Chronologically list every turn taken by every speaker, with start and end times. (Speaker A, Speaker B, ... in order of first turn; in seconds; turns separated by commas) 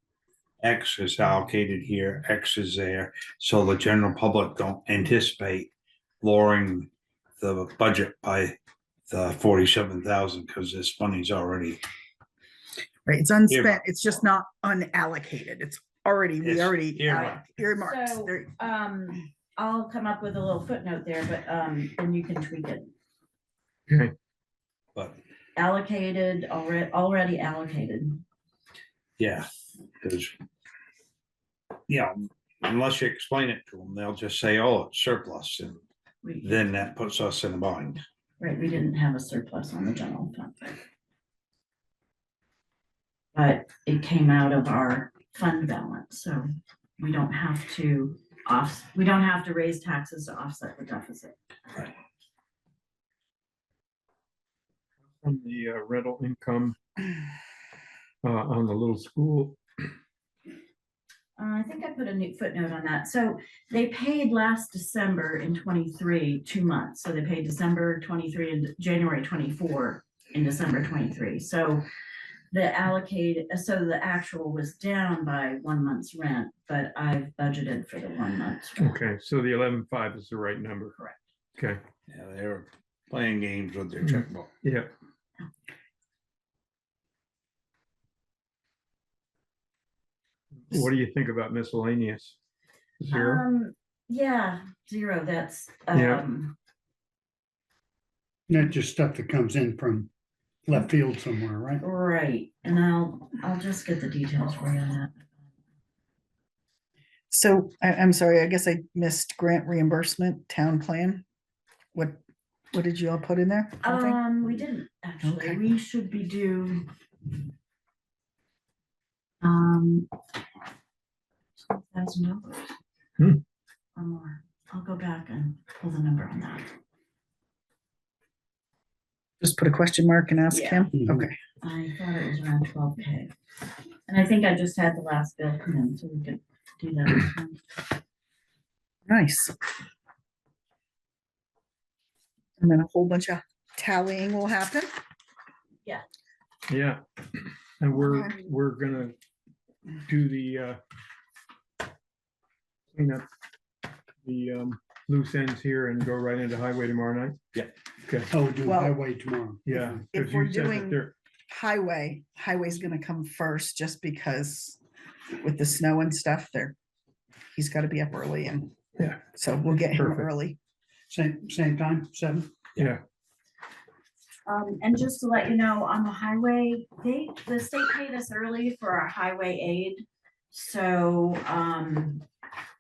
Speaker A: 0.6-6.9, Speaker A: 7.4-8.6, Speaker A: 9.1-11.8, Speaker B: 13.1-18.5, Speaker A: 13.5-13.9, Speaker A: 16.4-17.4, Speaker C: 17.8-22.9, Speaker D: 23.9-24.1, Speaker C: 25.6-28.2, Speaker A: 29.2-29.5, Speaker A: 30.0-30.3, Speaker A: 31.9-35.8, Speaker C: 36.2-36.6, Speaker A: 36.4-38.0, Speaker C: 38.4-40.8, Speaker C: 43.4-46.5, Speaker C: 47.0-51.3, Speaker D: 55.2-56.8, Speaker D: 58.2-59.6, Speaker C: 61.4-71.8, Speaker C: 72.5-79.0, Speaker D: 78.8-81.0, Speaker A: 82.1-84.5, Speaker D: 84.0-84.9, Speaker D: 90.7-92.4, Speaker D: 93.0-93.4, Speaker C: 93.1-96.5, Speaker D: 95.9-96.2, Speaker E: 98.5-100.1, Speaker E: 100.7-101.8, Speaker C: 101.8-105.1, Speaker B: 107.3-111.2, Speaker B: 111.9-112.2, Speaker B: 112.7-114.2, Speaker C: 113.8-116.9, Speaker B: 115.2-115.6, Speaker C: 119.4-120.1, Speaker C: 121.6-122.7, Speaker C: 124.0-126.7, Speaker B: 129.4-131.4, Speaker C: 130.5-130.9, Speaker E: 130.9-131.3, Speaker C: 131.6-133.3, Speaker C: 134.1-137.8, Speaker B: 139.1-139.5, Speaker B: 142.6-144.9, Speaker D: 146.7-147.0, Speaker D: 147.8-149.2, Speaker B: 147.9-148.3, Speaker D: 150.1-150.8, Speaker D: 152.9-153.3, Speaker D: 154.2-157.4, Speaker D: 158.0-158.3, Speaker E: 158.3-160.0, Speaker B: 158.7-159.0, Speaker D: 159.7-161.1, Speaker B: 160.1-164.8, Speaker B: 165.4-166.8, Speaker B: 167.5-168.7, Speaker D: 169.0-169.2, Speaker B: 169.3-170.6, Speaker D: 169.9-170.3, Speaker E: 171.1-172.6, Speaker C: 174.5-182.2